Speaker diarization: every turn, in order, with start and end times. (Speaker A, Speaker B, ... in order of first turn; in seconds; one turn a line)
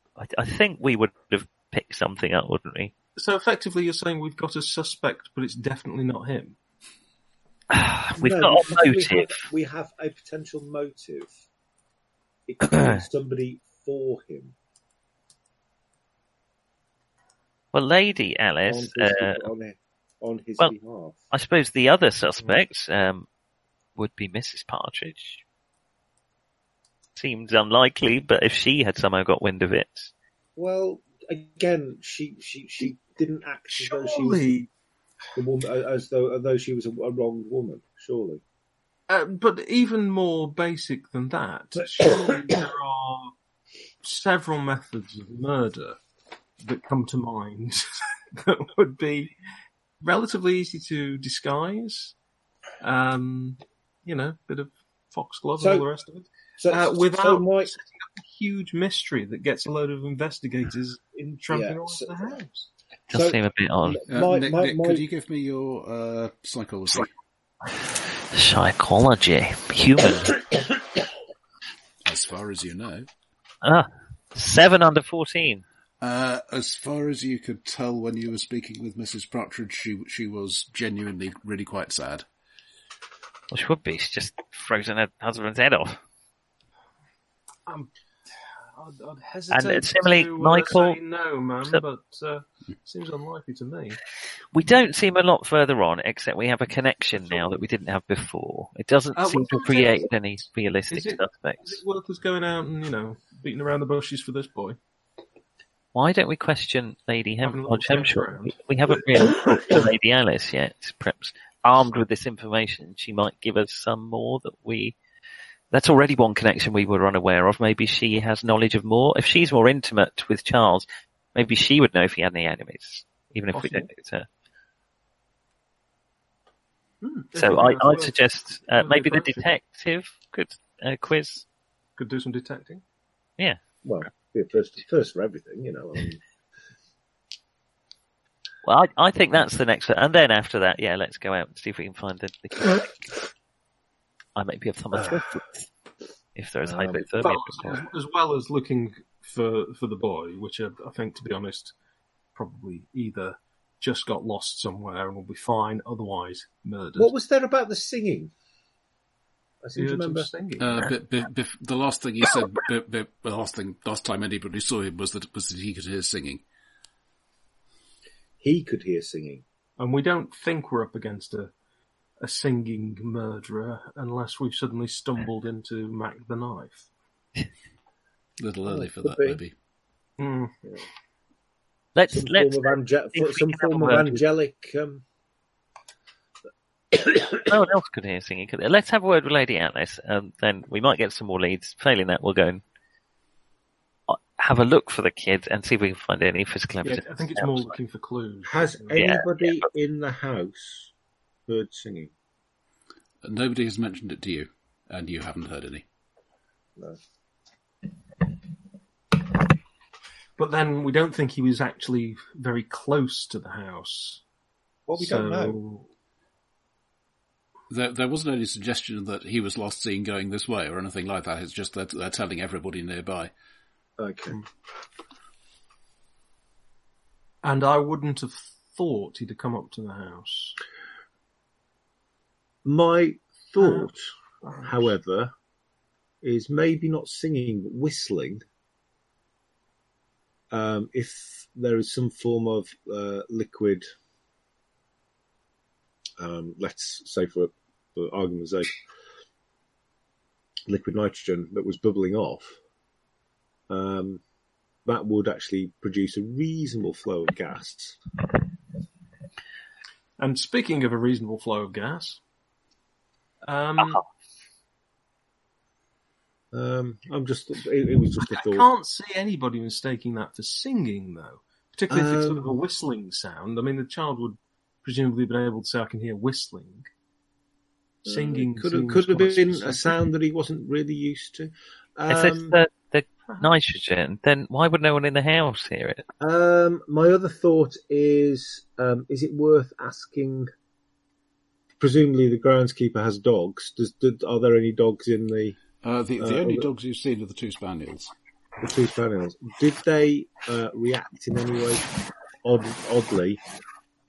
Speaker A: 0.2-2.9
Speaker B: 3.2-6.6
Speaker A: 7.7-9.4
Speaker C: 8.2-11.3
Speaker C: 12.5-14.6
Speaker A: 12.6-13.0
Speaker A: 17.7-19.5
Speaker C: 18.7-21.2
Speaker A: 21.3-23.3
Speaker A: 24.0-25.4
Speaker A: 27.2-30.1
Speaker C: 30.6-34.5
Speaker B: 33.7-34.7
Speaker C: 35.4-38.4
Speaker B: 39.1-43.3
Speaker B: 44.0-46.0
Speaker B: 46.6-49.3
Speaker B: 50.0-52.1
Speaker B: 52.8-62.7
Speaker C: 55.6-55.9
Speaker C: 56.6-57.7
Speaker C: 61.5-62.4
Speaker A: 63.1-64.0
Speaker C: 63.1-65.0
Speaker D: 64.1-67.1
Speaker A: 68.3-70.4
Speaker D: 72.0-73.1
Speaker A: 73.6-75.6
Speaker D: 76.0-82.2
Speaker A: 83.5-86.0
Speaker B: 88.4-94.0
Speaker A: 89.5-91.0
Speaker A: 94.5-101.8
Speaker B: 99.2-100.1
Speaker B: 100.9-104.8
Speaker A: 105.9-115.0
Speaker B: 107.4-108.6
Speaker A: 115.7-124.3
Speaker B: 123.5-123.9
Speaker B: 127.0-128.2
Speaker A: 127.3-131.5
Speaker B: 128.8-129.4
Speaker B: 132.0-132.8
Speaker C: 133.8-136.2
Speaker A: 138.7-143.1
Speaker A: 144.4-145.7
Speaker C: 145.0-145.3
Speaker A: 146.3-147.8
Speaker C: 146.7-147.0
Speaker B: 147.2-151.8
Speaker B: 152.3-157.1
Speaker C: 157.0-158.3
Speaker C: 159.6-160.3
Speaker B: 159.8-160.9
Speaker D: 160.6-166.4
Speaker C: 168.4-169.4
Speaker B: 169.8-171.5
Speaker B: 172.2-176.9
Speaker D: 178.4-179.5
Speaker C: 178.7-179.4
Speaker B: 180.2-180.7
Speaker A: 182.0-184.2
Speaker C: 182.1-185.0
Speaker C: 186.9-187.4
Speaker A: 187.5-192.6
Speaker A: 194.1-197.7
Speaker B: 196.8-199.0
Speaker C: 198.5-200.9
Speaker A: 198.9-199.7
Speaker C: 201.5-202.1
Speaker D: 203.2-205.8
Speaker B: 210.4-214.2
Speaker C: 214.9-215.6
Speaker B: 215.0-215.9
Speaker D: 217.7-223.3
Speaker C: 224.0-224.4
Speaker B: 227.4-230.6
Speaker C: 232.7-234.0
Speaker B: 233.6-233.9
Speaker B: 234.4-234.9
Speaker C: 234.6-235.3
Speaker C: 236.2-238.4
Speaker C: 240.5-243.9
Speaker C: 246.2-248.8
Speaker C: 250.7-252.6
Speaker C: 253.7-254.2
Speaker C: 254.9-258.0
Speaker B: 260.2-262.2
Speaker B: 263.4-264.0
Speaker A: 263.8-264.0
Speaker C: 266.5-268.7
Speaker B: 268.2-276.9
Speaker C: 271.9-272.5
Speaker C: 278.1-282.6
Speaker B: 278.1-280.0
Speaker A: 282.1-286.1
Speaker B: 283.3-283.6
Speaker C: 286.2-290.5
Speaker C: 291.8-295.6
Speaker D: 295.8-298.1
Speaker C: 296.2-296.7
Speaker C: 298.6-301.9
Speaker C: 302.4-303.4